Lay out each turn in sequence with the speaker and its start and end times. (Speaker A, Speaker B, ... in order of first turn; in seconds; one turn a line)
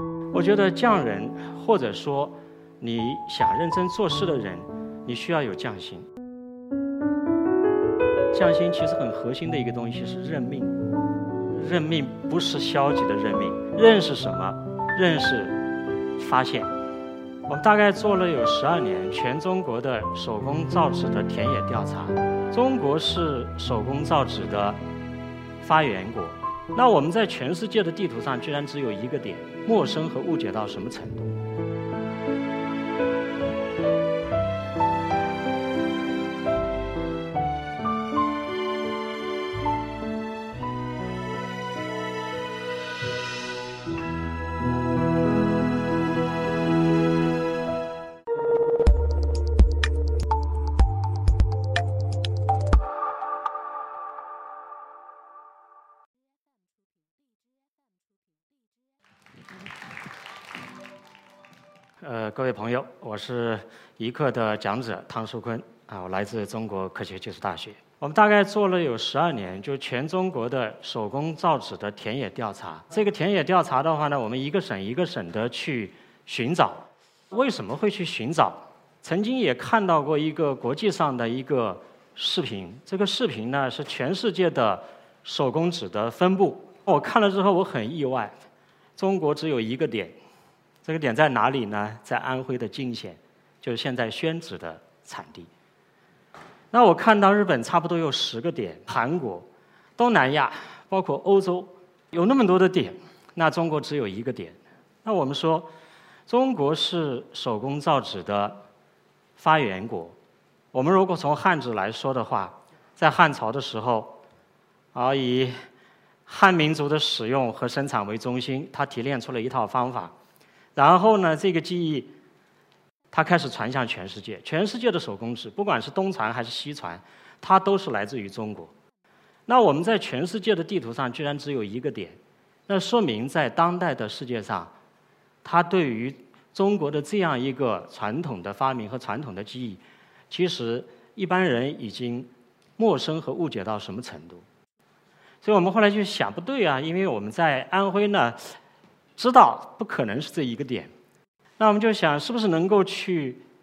Speaker A: 0.3-6.0
Speaker A: 8.3-10.8
Speaker A: 11.5-15.6
Speaker A: 16.2-16.7
Speaker A: 17.5-24.8
Speaker A: 25.6-31.3
Speaker A: 62.0-88.3
Speaker A: 89.0-90.2
Speaker A: 90.8-95.5
Speaker A: 96.7-105.7
Speaker A: 106.3-108.6
Speaker A: 109.4-110.2
Speaker A: 110.7-114.2
Speaker A: 114.9-115.5
Speaker A: 116.2-120.1
Speaker A: 120.7-122.1
Speaker A: 123.1-128.7
Speaker A: 129.5-134.7
Speaker A: 135.4-144.4
Speaker A: 145.4-148.5
Speaker A: 149.2-150.9
Speaker A: 151.6-153.4